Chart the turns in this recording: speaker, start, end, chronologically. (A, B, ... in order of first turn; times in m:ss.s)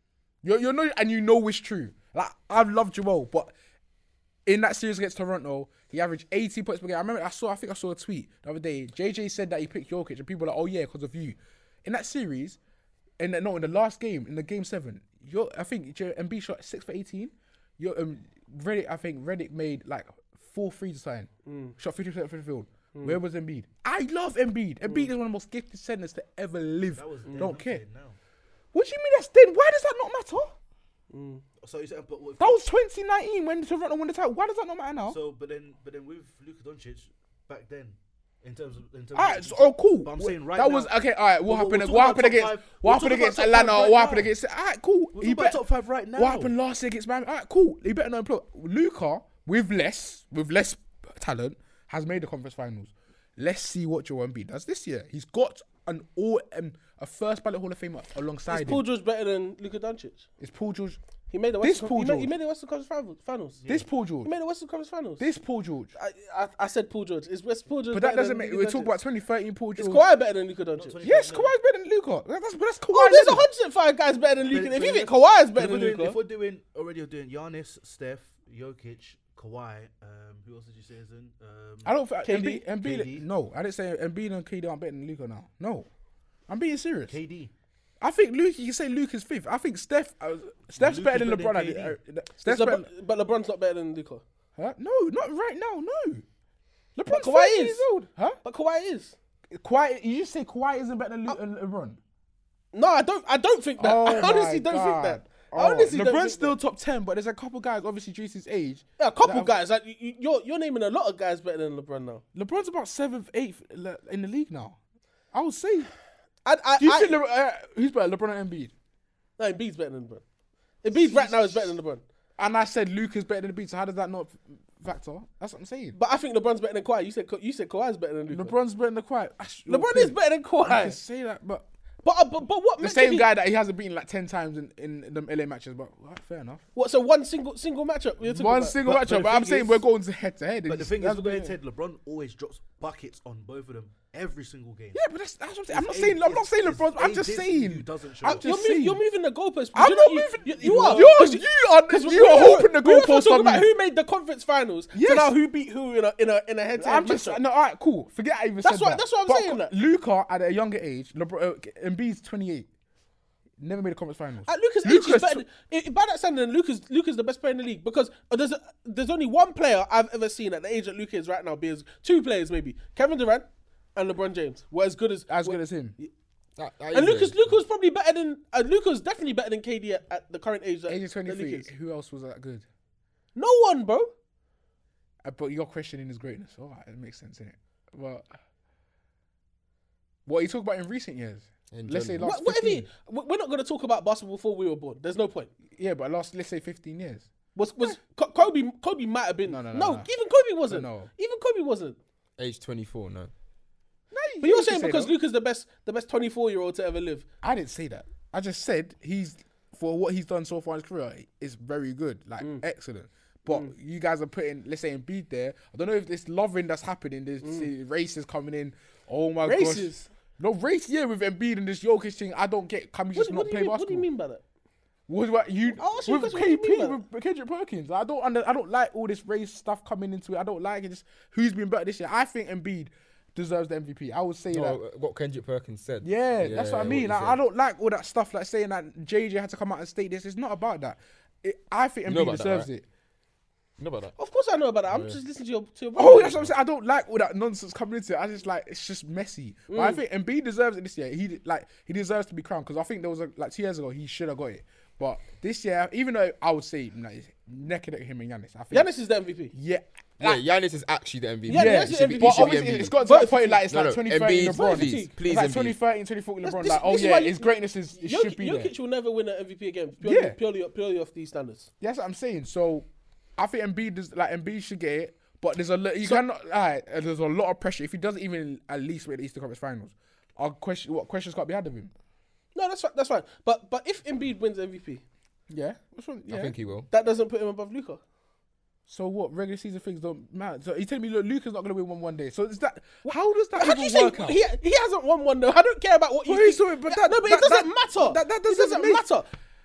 0:00.4-0:03.5 A
0:04.4-0:12.6 A
0:13.2-0:27.8 A
0:21.4-0:21.7 B
0:26.9-0:28.2 C
0:27.3-0:27.5 B
0:28.7-0:30.5 A
0:31.1-0:31.4 B
0:31.6-0:32.6 C
0:32.4-0:35.2 A
0:35.1-0:44.3 C
0:39.1-0:45.6 A
0:45.1-0:46.5 C
0:46.2-0:58.8 A
0:58.5-1:00.3 B
1:00.4-1:01.0 A
1:01.3-1:03.6 B
1:01.6-1:02.3 A
1:03.6-1:03.9 C
1:03.7-1:04.3 A
1:04.2-1:05.3 B
1:05.2-1:05.9 A
1:05.9-1:08.9 B
1:07.9-1:10.0 A
1:09.8-1:11.0 B
1:10.8-1:11.5 C
1:11.0-1:13.5 A
1:12.9-1:16.2 B
1:14.4-1:22.0 C
1:21.8-1:25.9 A
1:22.2-1:22.6 B
1:22.7-1:23.2 C
1:26.5-1:27.1 A
1:27.1-1:27.5 C
1:28.0-1:32.9 A
1:30.7-1:32.0 C
1:32.4-1:34.2 B
1:34.6-1:36.2 A
1:37.0-1:38.4 A
1:37.0-1:37.8 B
1:38.4-1:39.1 B
1:39.5-1:42.0 A
1:42.7-1:46.5 B
1:43.8-1:49.5 A
1:49.0-1:52.2 B
1:52.3-1:54.8 A
1:55.3-1:55.9 A
1:56.4-1:57.2 B
1:56.8-1:58.7 A
1:59.4-2:00.2 B
2:00.8-2:02.0 B
2:00.9-2:01.7 A
2:02.4-2:06.0 A
2:05.9-2:08.5 B
2:08.3-2:11.7 A
2:09.7-2:11.0 B
2:12.0-2:13.3 B
2:12.8-2:16.6 A
2:16.7-2:19.8 B
2:18.2-2:21.6 A
2:20.6-2:25.0 C
2:24.9-2:29.0 A
2:25.7-2:28.5 C
2:28.2-2:37.4 B
2:29.7-2:33.7 A
2:30.6-2:31.2 C
2:34.9-2:35.4 A
2:36.8-2:42.7 A
2:38.6-2:39.7 B
2:43.6-2:45.4 A
2:44.5-2:56.1 B
2:55.3-2:56.0 A
2:56.6-2:57.5 D
2:56.9-3:01.7 B
3:00.9-3:02.6 A
3:03.3-3:04.1 B
3:05.2-3:08.3 A
3:10.2-3:12.9 A
3:11.7-3:12.2 D
3:12.2-3:15.5 B
3:15.7-3:17.3 A
3:17.5-3:22.0 B
3:19.4-3:20.1 A
3:20.7-3:21.1 A
3:22.4-3:23.3 D
3:24.1-3:25.1 A
3:24.4-3:27.3 B
3:27.4-3:44.0 A
3:37.4-3:37.7 B
3:39.4-3:40.1 B
3:43.1-3:44.4 B
3:45.1-3:54.8 A
3:45.8-3:47.0 B
3:54.5-3:57.4 D
3:56.0-4:02.8 A
4:02.0-4:02.7 D
4:03.8-4:04.1 D
4:04.2-4:06.5 B
4:04.9-4:05.2 D
4:06.0-4:18.9 A
4:09.7-4:10.0 B
4:18.7-4:19.5 B
4:19.5-4:20.4 A
4:20.2-4:23.0 D
4:21.5-4:23.6 B
4:21.5-4:28.7 A
4:23.7-4:25.8 D
4:24.4-4:25.1 B
4:26.4-4:31.7 B
4:30.0-4:30.4 A
4:31.8-4:41.9 A
4:42.5-4:45.0 B
4:45.5-4:46.6 A
4:46.3-4:46.9 D
4:46.9-4:48.0 B
4:48.9-4:54.4 A
4:53.0-4:59.3 B
4:56.2-4:59.0 A